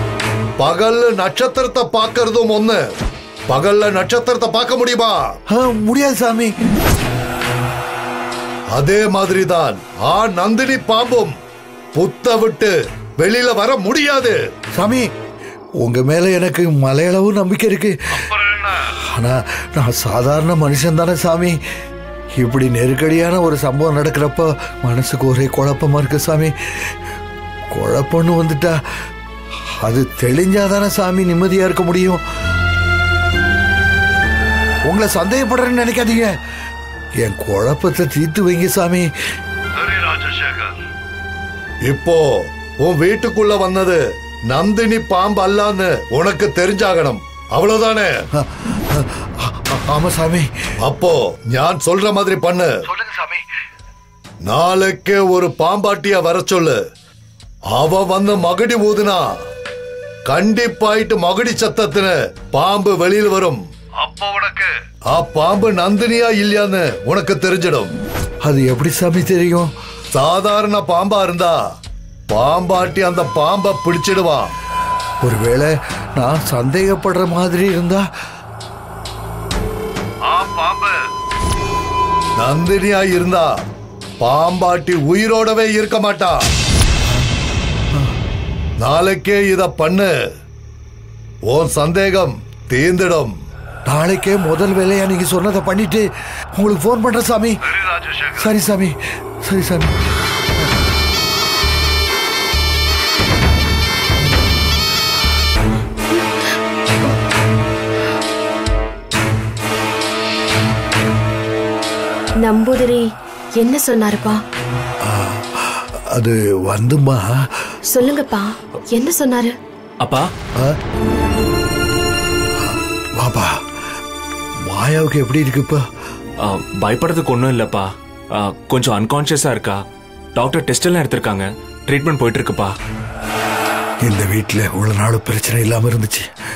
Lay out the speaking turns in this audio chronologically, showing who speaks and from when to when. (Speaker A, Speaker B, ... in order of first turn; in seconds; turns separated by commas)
Speaker A: 0.6-2.8, Speaker A: 3.5-5.2, Speaker B: 5.5-6.5, Speaker A: 8.7-11.3, Speaker A: 11.9-14.4, Speaker B: 14.8-15.1, Speaker B: 15.8-17.9, Speaker A: 18.2-18.8, Speaker B: 19.1-21.6, Speaker B: 22.4-26.5, Speaker B: 27.7-28.8, Speaker B: 29.7-32.2, Speaker B: 34.9-36.3, Speaker B: 37.2-39.1, Speaker A: 39.8-40.8, Speaker A: 41.9-48.1, Speaker B: 48.4-50.5, Speaker A: 50.8-52.7, Speaker B: 52.9-53.4, Speaker A: 54.5-56.8, Speaker A: 57.7-59.3, Speaker A: 60.3-67.9, Speaker B: 68.4-69.7, Speaker A: 70.1-71.6, Speaker A: 72.3-74.5, Speaker B: 75.2-78.0, Speaker A: 80.2-81.0, Speaker A: 82.4-83.5, Speaker A: 84.2-86.5, Speaker A: 88.8-90.1, Speaker A: 91.5-93.3, Speaker B: 93.8-97.6, Speaker A: 97.7-98.4, Speaker B: 98.4-99.9, Speaker C: 112.4-113.0, Speaker C: 113.6-114.4, Speaker B: 115.0-117.5, Speaker C: 117.9-119.5, Speaker D: 120.0-120.3, Speaker B: 122.5-123.6, Speaker B: 124.7-125.8, Speaker D: 126.4-129.8, Speaker D: 130.3-132.7, Speaker B: 134.0-136.3